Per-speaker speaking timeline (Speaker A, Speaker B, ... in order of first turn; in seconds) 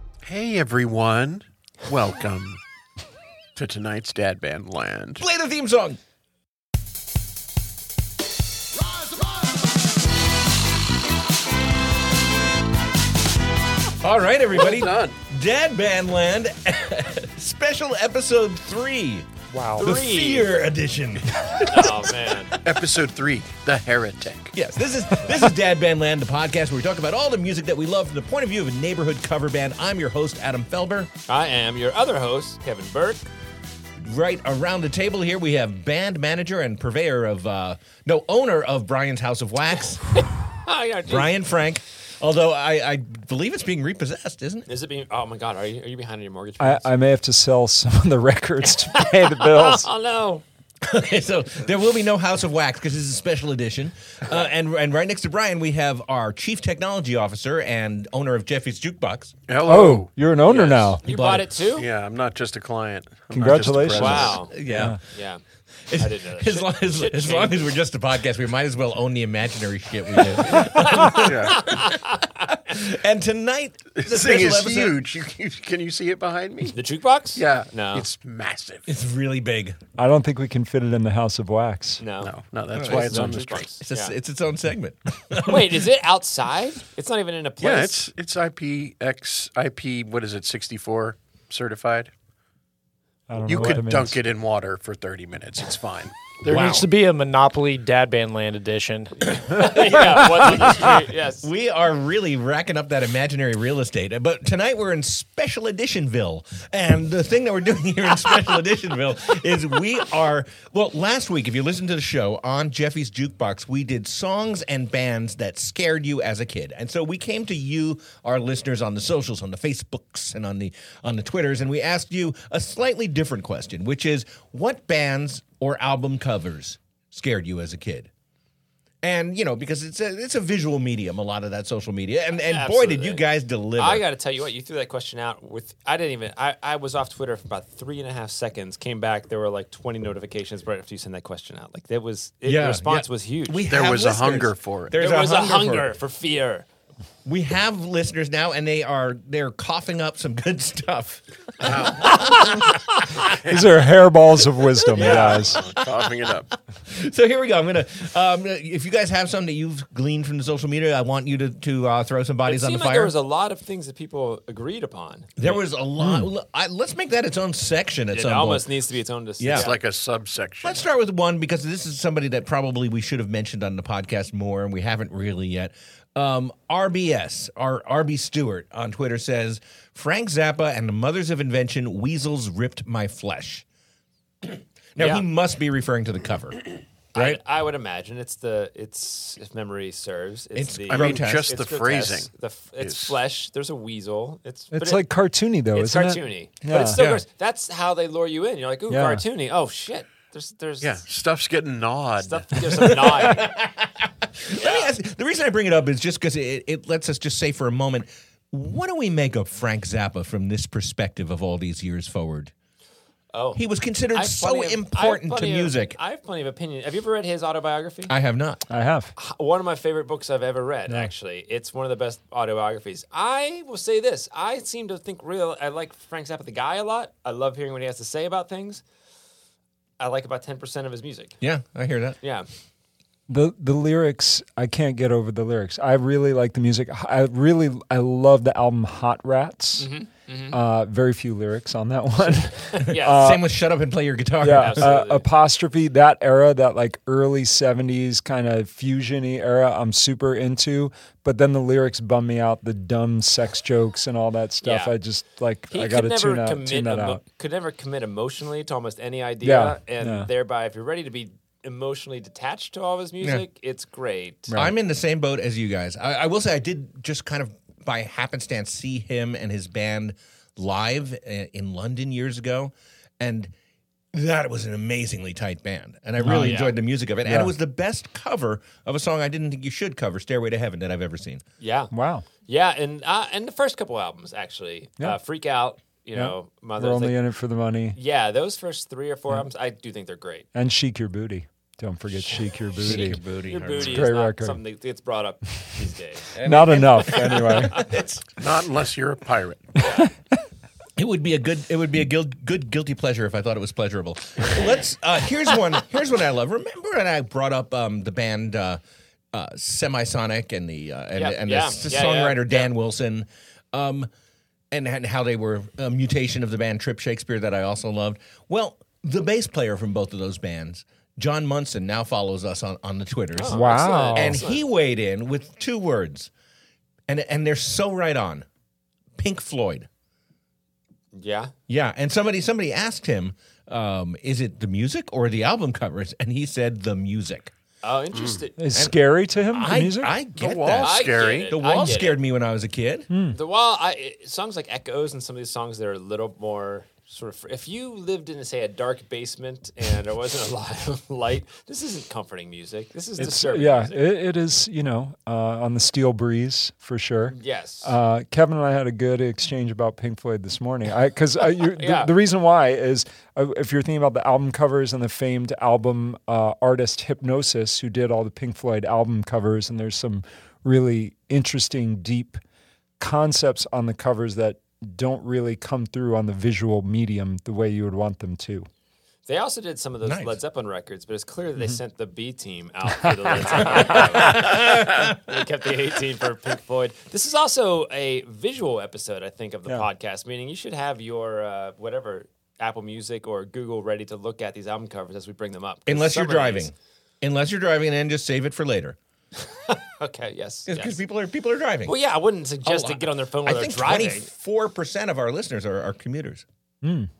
Speaker A: 0.2-2.6, 3.5-5.2, 14.6-15.2, 22.6-24.5, 59.5-60.1, 61.8-64.9, 71.2-71.6, 74.0-76.8, 77.3-78.9, 82.2-83.8, 87.6-92.1, 93.4-96.8, 143.7-144.9, 151.6-153.8, 154.9-156.5, 169.5-170.8, 190.9-192.3, 192.8-193.2, 200.8-203.0, 298.4-299.9, 338.1-338.4, 340.4-341.5
Speaker B: 5.2-6.0, 14.0-22.0, 24.5-31.1, 34.0-40.3, 41.0-44.7, 50.8-59.4, 61.0-61.5, 64.4-65.0, 65.9-72.0, 72.5-75.0, 78.9-79.8, 82.7-85.8, 96.5-96.9, 99.4-128.1, 129.0-134.0, 142.4-145.9, 147.2-153.0, 155.6-156.1, 156.9-163.1, 165.4-168.6, 169.4-169.7, 170.6-183.6, 184.4-186.6, 187.1-187.4, 190.5-191.4, 196.8-197.2, 202.8-212.5, 213.5-216.0, 218.1-218.6, 231.4-232.2, 242.8-244.9, 264.5-273.5, 274.1-281.4, 292.8-294.1, 296.3-298.1, 301.0-308.8, 309.3-314.1, 314.7-326.3, 327.1-328.4, 329.2-329.9, 331.7-337.5, 339.5-343.1, 380.0-380.4, 383.9-385.2, 395.9-399.0, 400.7-401.9, 402.6-406.4
Speaker C: 19.5-19.9, 46.6-49.9, 59.6-61.0, 63.3-65.0, 80.0-82.0, 82.9-83.4, 93.3-94.2, 153.5-155.6, 166.0-166.3, 194.7-197.0, 198.9-199.2, 218.7-219.1, 233.3-239.9, 240.5-243.4, 244.4-257.2, 259.4-260.3, 264.5-264.7, 276.2-276.6, 277.2-277.5, 281.9-282.2, 286.1-288.0, 290.5-293.2, 293.7-294.6, 296.4-297.8, 323.5-324.4, 338.6-340.1, 343.1-343.4, 353.2-372.4, 373.0-378.7, 383.0-384.0, 406.8-407.1
Speaker D: 19.8-20.5, 21.6-22.6, 31.3-33.3, 40.2-41.3, 44.7-46.9, 48.6-50.4, 60.5-61.9, 63.9-65.4, 65.9-67.7, 70.3-72.5, 76.7-78.1, 82.0-84.1, 85.4-88.1, 99.2-101.5, 132.4-133.2, 133.8-143.6, 144.9-146.7, 154.9-155.6, 162.4-165.6, 168.1-169.8, 185.0-185.2, 187.1-195.1, 195.7-201.0, 202.2-203.6, 204.5-204.9, 213.3-213.6, 214.1-218.1, 219.2-228.8, 230.0-231.4, 232.2-232.5, 239.8-240.6, 242.6-243.4, 244.5-245.2, 254.6-254.9, 255.7-264.5, 276.2-276.7, 281.6-281.9, 282.4-287.2, 287.9-290.5, 292.3-296.3, 297.0-298.0, 299.8-300.1, 304.5-304.8, 311.1-312.7, 323.4-324.6, 331.1-331.5, 337.8-338.6, 340.8-342.2, 343.3-354.1, 357.3-357.9, 361.6-362.1, 379.3-396.7, 399.4-401.0, 401.9-404.3
Speaker E: 96.4-99.1